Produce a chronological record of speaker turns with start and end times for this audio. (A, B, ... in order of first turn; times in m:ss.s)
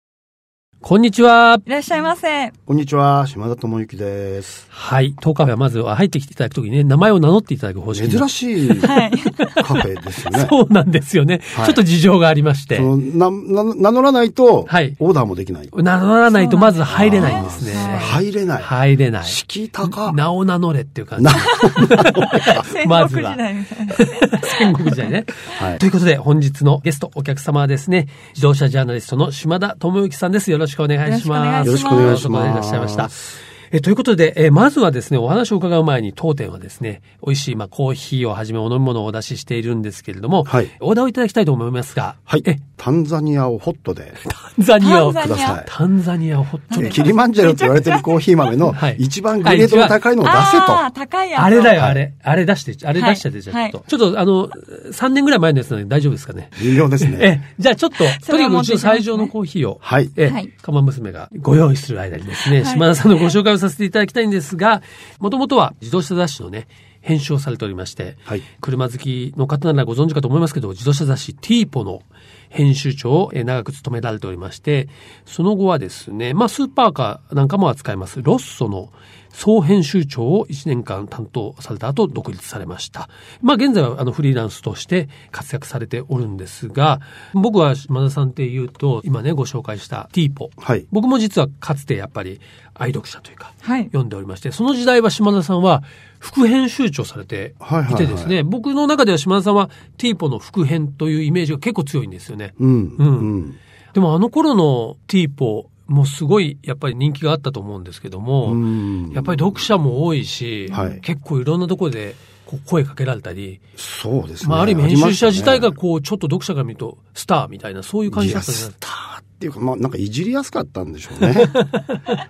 0:00.8-0:01.6 A
0:01.7-0:02.5 B
0:02.7-0:04.6 C
0:04.7-0:12.9 A
0:07.9-0:09.0 C
0:08.8-0:09.6 B
0:09.5-0:10.6 C
0:11.5-0:11.8 C
0:12.7-0:15.7 C
0:14.7-0:15.0 A
0:15.7-0:42.6 A
0:16.3-0:18.2 B
0:16.9-0:20.2 C
0:21.2-0:22.6 C
0:21.4-0:25.1 B
0:25.5-0:25.8 C
0:31.0-0:32.3 B
0:31.6-0:33.1 C
0:40.5-0:40.7 C
0:42.3-0:44.2 C
0:44.3-0:47.1 A
0:44.8-0:45.6 B
0:45.2-0:45.7 C
0:46.7-0:48.1 B
0:46.8-0:50.8 C
0:48.7-0:50.0 A
0:50.2-0:51.8 B
0:51.4-1:43.3 A
0:53.0-0:53.8 B
0:56.6-0:57.4 C
0:58.0-0:59.3 B
0:59.8-1:00.1 C
1:00.2-1:00.5 B
1:02.5-1:02.9 B
1:30.6-1:30.9 C
1:33.6-1:33.9 B
1:37.6-1:38.4 C
1:42.6-1:43.6 C
1:43.9-1:53.6 A
1:48.4-1:49.6 C
1:50.7-1:51.0 C
1:50.7-1:51.0 B
1:53.8-1:55.8 C
1:54.4-1:58.8 A
1:58.1-2:01.6 C
2:01.2-2:02.0 A